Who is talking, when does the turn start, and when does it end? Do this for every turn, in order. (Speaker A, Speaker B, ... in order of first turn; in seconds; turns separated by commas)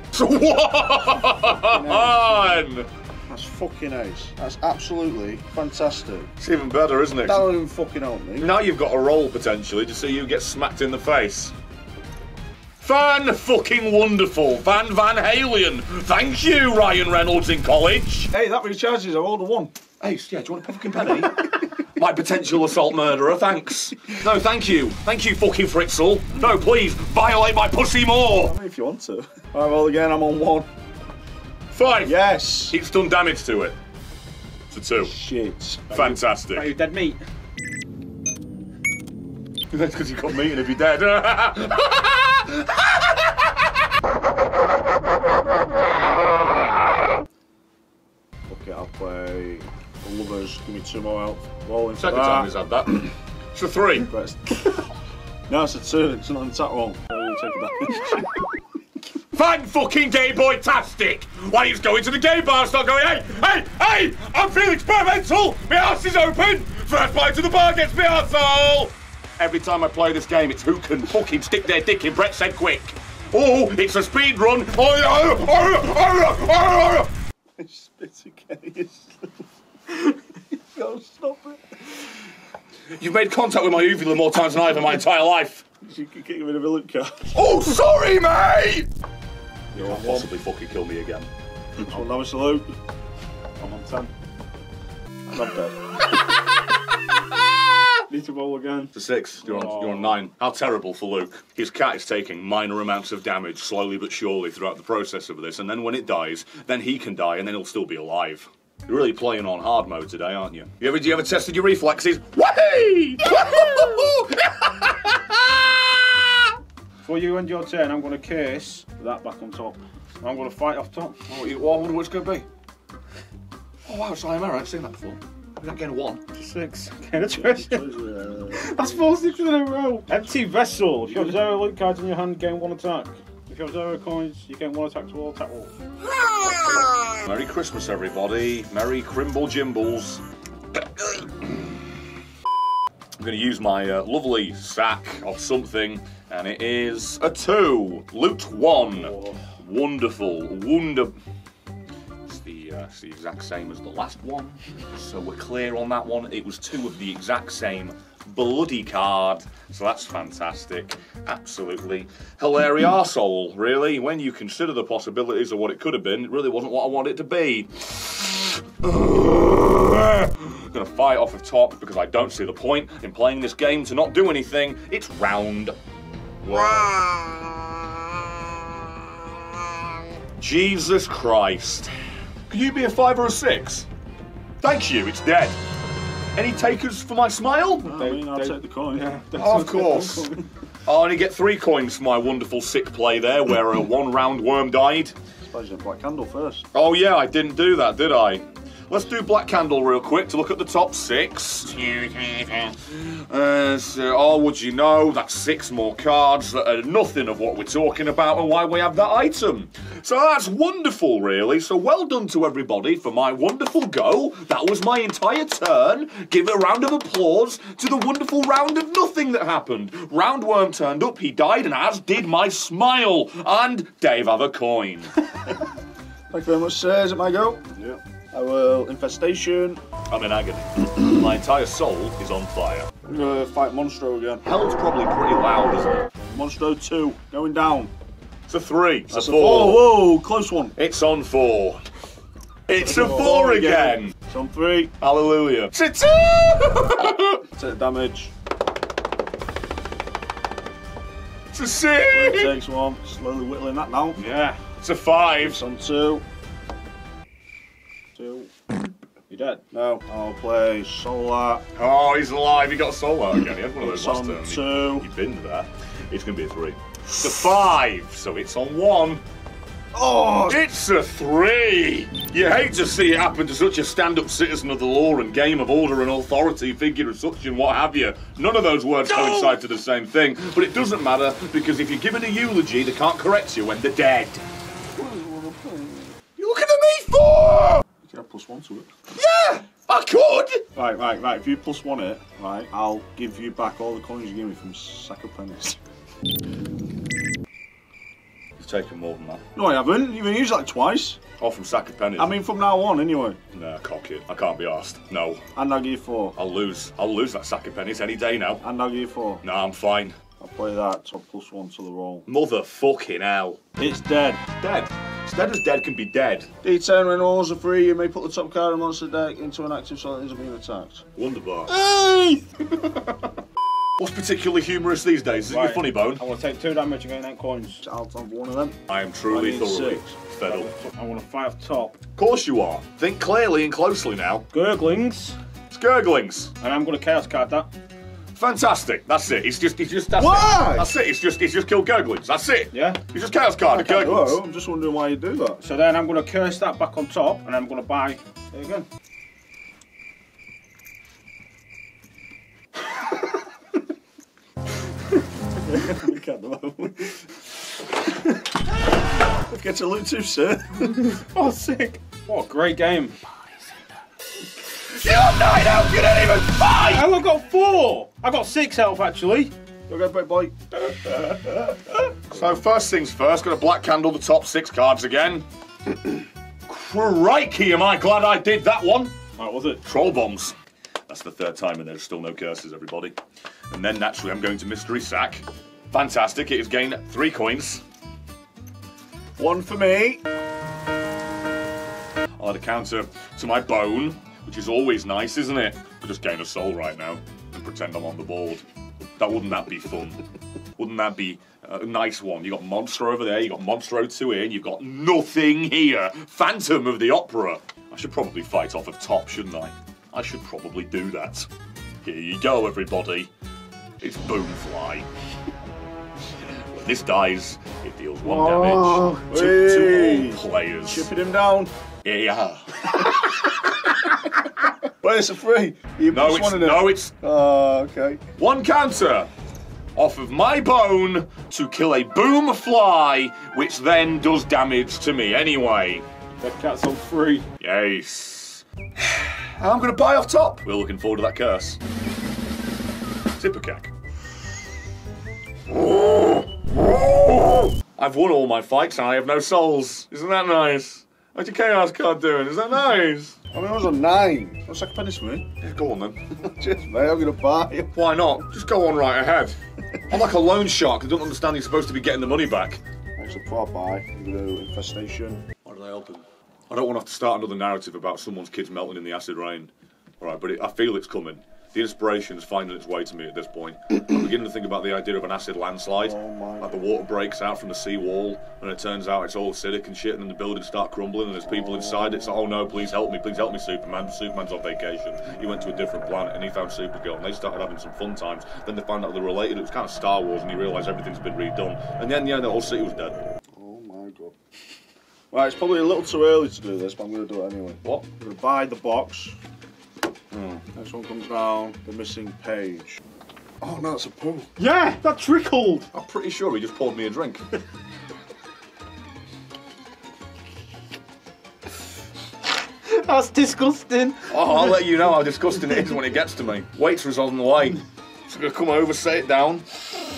Speaker A: 0.1-2.9, Speaker B: 1.4-2.6, Speaker B: 3.3-6.3, Speaker A: 6.4-7.5, Speaker B: 7.2-8.5, Speaker A: 8.4-11.5, Speaker A: 12.8-18.3, Speaker B: 18.3-19.7, Speaker A: 20.0-28.5, Speaker B: 28.4-30.7, Speaker A: 31.7-32.1, Speaker B: 32.0-32.8, Speaker A: 32.7-33.8, Speaker A: 34.7-35.1, Speaker B: 35.0-36.0, Speaker A: 35.9-36.7, Speaker C: 35.9-37.2, Speaker A: 39.7-42.7, Speaker B: 48.5-52.5, Speaker A: 52.0-54.1, Speaker B: 54.1-54.8, Speaker B: 55.5-58.4, Speaker A: 59.3-77.1, Speaker B: 77.6-79.3, Speaker B: 80.5-81.6, Speaker A: 82.9-85.6, Speaker B: 85.8-87.4, Speaker A: 87.3-88.9, Speaker C: 89.7-90.3, Speaker A: 89.7-91.3, Speaker B: 91.8-92.7, Speaker C: 93.6-94.1, Speaker B: 95.3-95.8, Speaker C: 98.1-100.2, Speaker A: 98.9-115.2, Speaker C: 117.0-121.2, Speaker A: 121.3-122.5, Speaker A: 123.9-126.2, Speaker C: 126.3-127.9, Speaker B: 127.3-128.8, Speaker C: 128.5-135.7, Speaker A: 137.1-140.2, Speaker A: 143.2-151.1, Speaker C: 148.9-149.4, Speaker A: 152.3-175.7, Speaker A: 176.4-177.4, Speaker A: 180.4-181.9, Speaker A: 182.5-183.9, Speaker A: 184.6-185.6, Speaker A: 186.3-187.9, Speaker B: 187.8-189.1, Speaker C: 187.8-190.4, Speaker A: 189.3-190.3, Speaker A: 190.9-195.1, Speaker B: 195.4-196.7, Speaker A: 196.7-225.1, Speaker B: 226.3-229.8, Speaker A: 230.1-232.9, Speaker B: 233.0-234.4, Speaker A: 234.4-236.1, Speaker B: 236.3-237.9, Speaker A: 238.5-240.1, Speaker B: 239.1-240.8, Speaker A: 240.8-241.8, Speaker A: 242.7-244.1, Speaker B: 242.8-244.9, Speaker A: 245.0-247.4, Speaker B: 247.5-248.3, Speaker A: 251.5-252.6, Speaker B: 252.1-254.2, Speaker C: 254.2-254.6, Speaker A: 254.8-255.6, Speaker B: 255.4-256.2, Speaker B: 258.2-258.5, Speaker C: 259.3-259.6, Speaker B: 259.7-261.6, Speaker A: 261.8-269.2, Speaker B: 263.8-265.1, Speaker B: 269.9-270.6, Speaker A: 270.5-284.4, Speaker B: 284.9-286.2, Speaker A: 286.4-287.8, Speaker B: 288.0-288.9, Speaker A: 289.1-290.6, Speaker B: 290.7-295.8, Speaker A: 298.6-299.4, Speaker B: 299.6-301.2, Speaker A: 301.4-302.3, Speaker B: 302.2-303.4, Speaker A: 303.5-305.4, Speaker B: 305.6-306.4, Speaker A: 306.4-308.6, Speaker B: 308.6-309.4, Speaker A: 309.4-310.1, Speaker B: 310.4-312.3, Speaker A: 312.3-313.6, Speaker B: 313.8-314.4, Speaker C: 314.0-314.4, Speaker A: 314.6-316.5, Speaker B: 316.6-321.0, Speaker A: 321.2-321.7, Speaker C: 321.7-322.4, Speaker A: 324.0-326.2, Speaker C: 325.5-327.8, Speaker B: 327.8-328.8, Speaker A: 328.9-330.7, Speaker B: 329.3-330.1, Speaker C: 329.7-332.0, Speaker A: 332.2-334.4, Speaker C: 334.5-335.4, Speaker A: 335.7-336.5, Speaker C: 336.6-337.7, Speaker A: 338.4-344.4, Speaker B: 340.2-340.9, Speaker C: 342.7-343.0, Speaker B: 343.6-345.6, Speaker C: 345.6-348.9, Speaker B: 355.7-357.1, Speaker B: 359.5-361.1, Speaker C: 361.0-363.2, Speaker A: 364.9-367.1, Speaker C: 366.8-369.5, Speaker B: 369.9-370.5, Speaker A: 372.3-375.4, Speaker A: 376.7-379.1, Speaker C: 379.4-379.8, Speaker A: 379.8-380.5, Speaker A: 381.1-383.1, Speaker A: 383.7-387.8, Speaker B: 389.4-390.2, Speaker A: 392.4-398.6, Speaker A: 399.2-400.2, Speaker A: 400.8-411.5, Speaker A: 412.0-413.3, Speaker A: 414.0-415.1, Speaker A: 416.7-421.1, Speaker B: 418.2-421.7, Speaker A: 422.0-423.0, Speaker B: 425.0-428.2, Speaker A: 426.1-427.1, Speaker A: 428.4-429.3, Speaker A: 429.9-436.0, Speaker C: 436.4-437.5, Speaker A: 437.6-441.8, Speaker A: 443.4-443.9, Speaker A: 445.7-453.4, Speaker B: 453.5-455.5, Speaker A: 455.6-456.2, Speaker B: 456.4-457.9, Speaker A: 457.9-459.6, Speaker A: 460.1-462.8, Speaker B: 463.2-465.4, Speaker A: 465.6-493.2, Speaker B: 476.0-476.8, Speaker B: 481.6-482.2, Speaker B: 493.6-494.3, Speaker B: 495.3-499.4, Speaker A: 500.3-500.6, Speaker B: 500.7-503.0, Speaker B: 503.6-504.5, Speaker C: 504.6-505.9, Speaker A: 505.9-507.4, Speaker C: 512.8-514.6, Speaker A: 514.3-519.6